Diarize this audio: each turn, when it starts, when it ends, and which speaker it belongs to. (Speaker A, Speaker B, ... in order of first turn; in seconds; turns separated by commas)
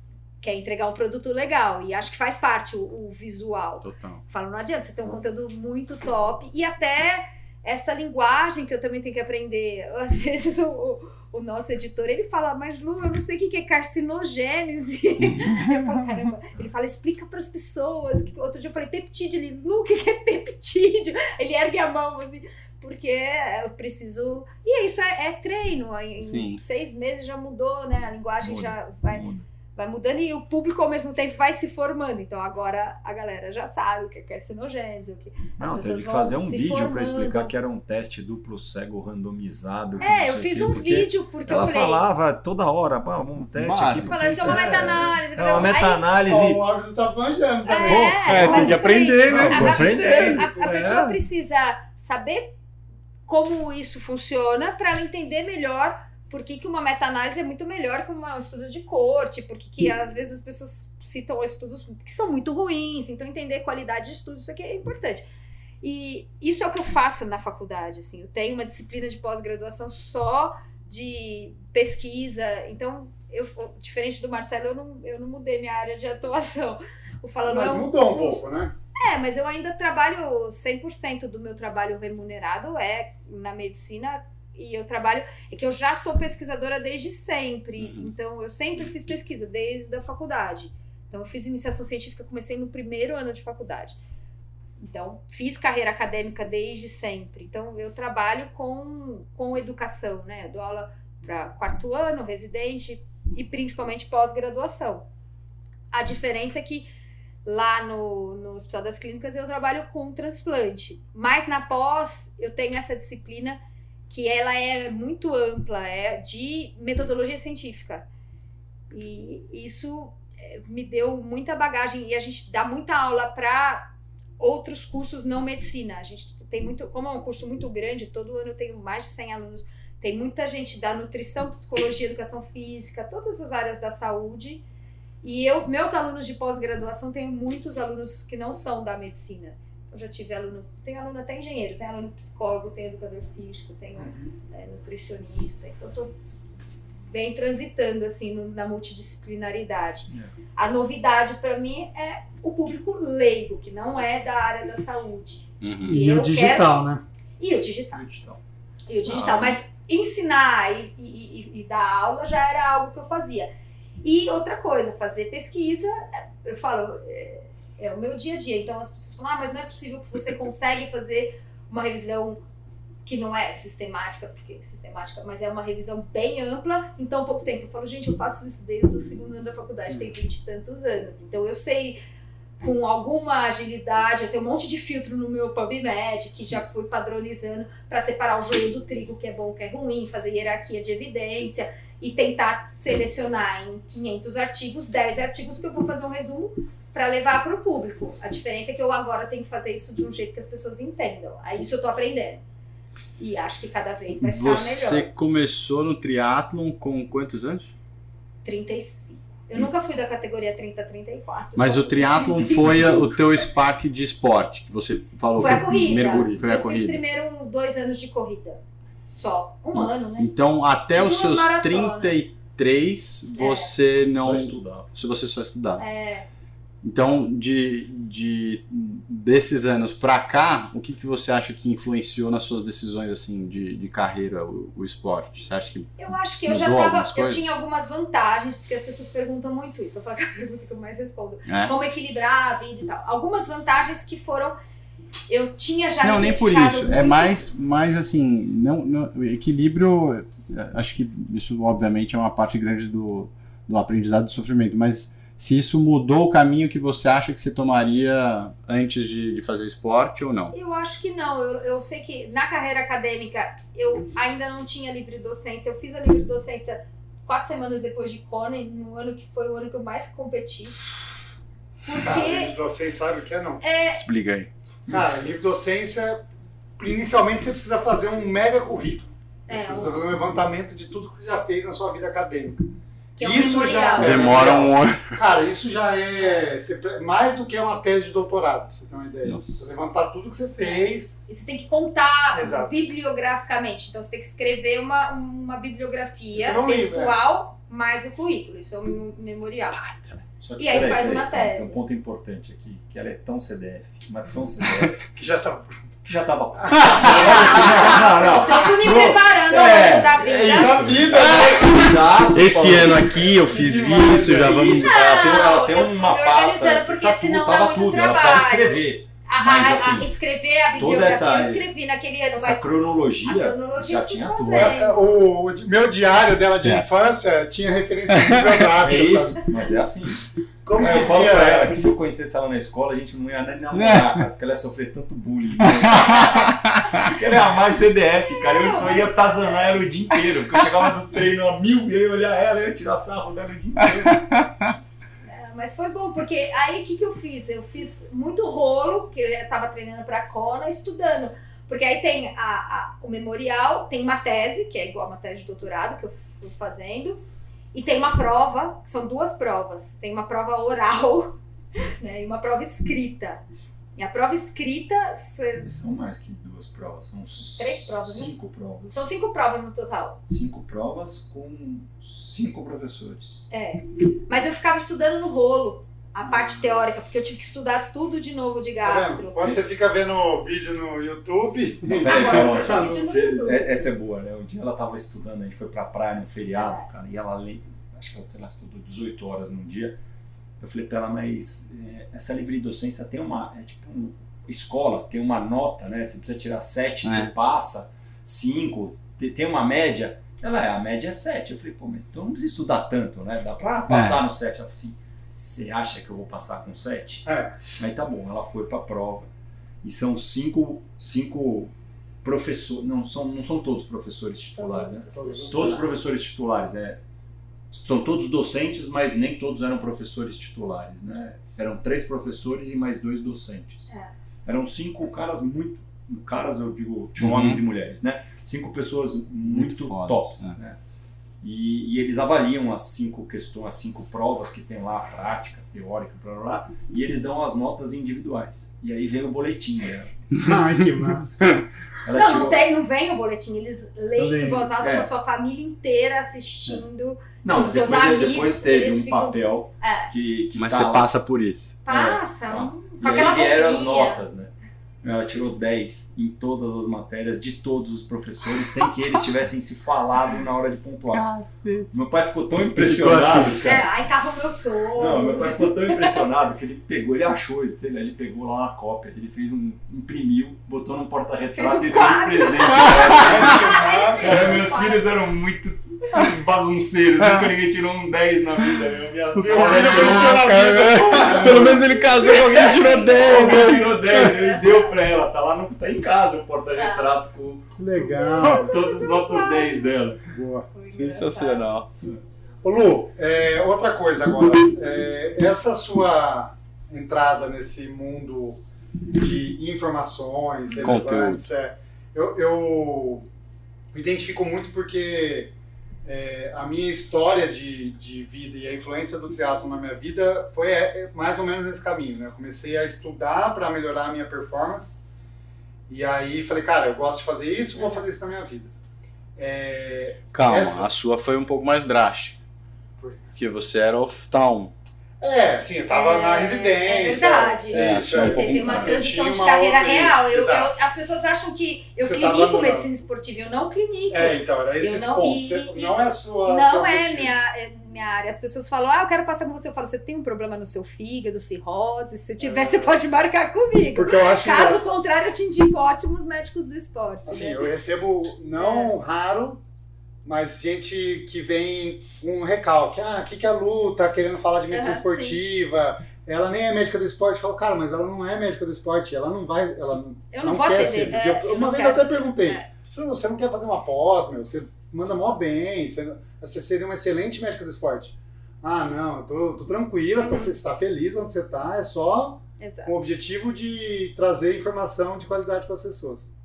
Speaker A: 0.4-37.5, Speaker B: 3.8-4.2, Speaker B: 26.2-26.6, Speaker C: 28.4-29.5, Speaker C: 35.6-46.6, Speaker A: 40.0-42.0, Speaker B: 43.5-44.7, Speaker A: 44.0-46.0, Speaker D: 46.3-48.8, Speaker A: 47.7-52.5, Speaker C: 47.9-51.2, Speaker B: 47.9-50.4, Speaker D: 49.5-50.7, Speaker A: 53.3-65.3, Speaker A: 65.8-78.4, Speaker D: 77.5-78.7, Speaker A: 79.0-94.0, Speaker B: 87.8-88.1, Speaker A: 94.8-105.1, Speaker A: 105.9-106.9, Speaker A: 107.5-113.6, Speaker A: 114.1-118.1, Speaker A: 118.9-134.6, Speaker A: 135.2-146.1, Speaker D: 144.0-144.3, Speaker A: 147.1-156.9, Speaker B: 155.6-156.0, Speaker D: 155.8-157.0, Speaker A: 157.4-158.0, Speaker C: 157.9-158.4, Speaker A: 158.9-163.5, Speaker C: 159.1-159.6, Speaker A: 164.0-172.4, Speaker A: 173.1-182.0, Speaker A: 182.6-202.4, Speaker A: 203.2-205.1, Speaker B: 204.2-207.7, Speaker A: 208.4-213.5, Speaker B: 211.6-217.0, Speaker A: 215.4-220.3, Speaker B: 219.8-225.8, Speaker A: 220.9-222.2, Speaker A: 223.4-223.7, Speaker C: 224.1-224.9, Speaker A: 225.8-226.3, Speaker B: 226.8-237.5, Speaker A: 236.0-244.6, Speaker B: 241.5-241.8, Speaker A: 245.3-247.4, Speaker B: 246.0-260.5, Speaker A: 260.5-270.8, Speaker A: 271.9-272.5, Speaker D: 271.9-273.6, Speaker A: 273.6-274.0, Speaker B: 273.9-274.5, Speaker D: 274.9-276.2, Speaker D: 276.8-291.2, Speaker A: 279.5-280.0, Speaker A: 283.2-284.6, Speaker B: 284.0-285.2, Speaker B: 289.2-289.8, Speaker A: 290.6-299.8, Speaker D: 292.3-292.8, Speaker D: 296.3-297.2, Speaker B: 299.9-300.2, Speaker C: 300.4-305.1, Speaker A: 300.6-301.8, Speaker D: 305.1-306.0, Speaker C: 306.1-320.1, Speaker D: 306.6-308.5, Speaker B: 306.8-307.7, Speaker A: 307.3-310.9, Speaker B: 309.8-315.4, Speaker D: 310.5-312.0, Speaker D: 313.1-314.8, Speaker A: 314.8-325.0, Speaker C: 320.8-321.7, Speaker C: 322.4-324.8, Speaker D: 324.5-329.4, Speaker B: 326.5-326.9, Speaker B: 328.1-328.7, Speaker C: 328.8-344.5, Speaker D: 330.6-331.8, Speaker B: 333.7-334.2, Speaker B: 335.6-337.1, Speaker A: 338.2-339.7, Speaker B: 343.8-344.7, Speaker A: 345.2-357.2, Speaker A: 357.7-363.4, Speaker A: 364.0-365.7, Speaker C: 365.6-368.9, Speaker A: 367.4-368.3, Speaker A: 368.9-370.2, Speaker C: 370.3-373.4, Speaker A: 373.5-379.5, Speaker D: 378.8-383.0, Speaker C: 381.9-390.0, Speaker A: 382.1-383.9, Speaker A: 386.6-386.9, Speaker C: 390.6-409.3, Speaker B: 397.1-397.3, Speaker B: 403.9-404.2, Speaker D: 407.3-407.6, Speaker C: 409.8-417.0, Speaker A: 414.6-416.0, Speaker D: 414.7-416.0, Speaker C: 417.7-423.9, Speaker C: 424.4-430.8, Speaker B: 427.2-427.6, Speaker B: 429.5-430.6, Speaker C: 431.4-440.2, Speaker D: 440.4-441.6, Speaker C: 442.0-442.7, Speaker A: 442.1-450.1, Speaker D: 444.2-444.7, Speaker C: 444.8-445.1, Speaker C: 447.4-451.1, Speaker B: 450.6-451.8, Speaker A: 451.9-454.2, Speaker C: 451.9-461.3, Speaker B: 461.1-461.9, Speaker C: 461.9-463.9, Speaker B: 462.8-463.8, Speaker A: 463.6-466.2, Speaker C: 465.0-490.3, Speaker A: 471.6-475.1, Speaker B: 472.8-473.4, Speaker D: 473.1-474.5, Speaker B: 479.4-484.1, Speaker D: 479.4-482.1, Speaker A: 482.2-485.0, Speaker A: 486.8-487.1, Speaker D: 487.8-488.6, Speaker A: 488.0-489.9, Speaker D: 490.3-490.7, Speaker A: 490.7-491.8, Speaker B: 490.8-491.9, Speaker D: 492.6-498.6, Speaker D: 499.1-503.3, Speaker A: 500.7-500.9, Speaker B: 500.8-501.5, Speaker D: 503.9-505.5, Speaker D: 506.1-515.0, Speaker D: 515.9-518.7, Speaker D: 519.4-520.9, Speaker B: 520.3-522.4, Speaker D: 523.0-523.2, Speaker B: 523.4-524.7, Speaker D: 525.2-530.8, Speaker A: 525.9-547.7, Speaker B: 527.7-529.0, Speaker D: 532.0-532.9, Speaker D: 534.1-537.3, Speaker D: 542.4-543.0, Speaker D: 543.9-544.9, Speaker D: 547.3-549.6, Speaker A: 548.6-548.9, Speaker D: 550.2-576.3, Speaker A: 554.7-555.4, Speaker A: 560.3-562.7, Speaker A: 570.2-570.5, Speaker A: 572.6-572.9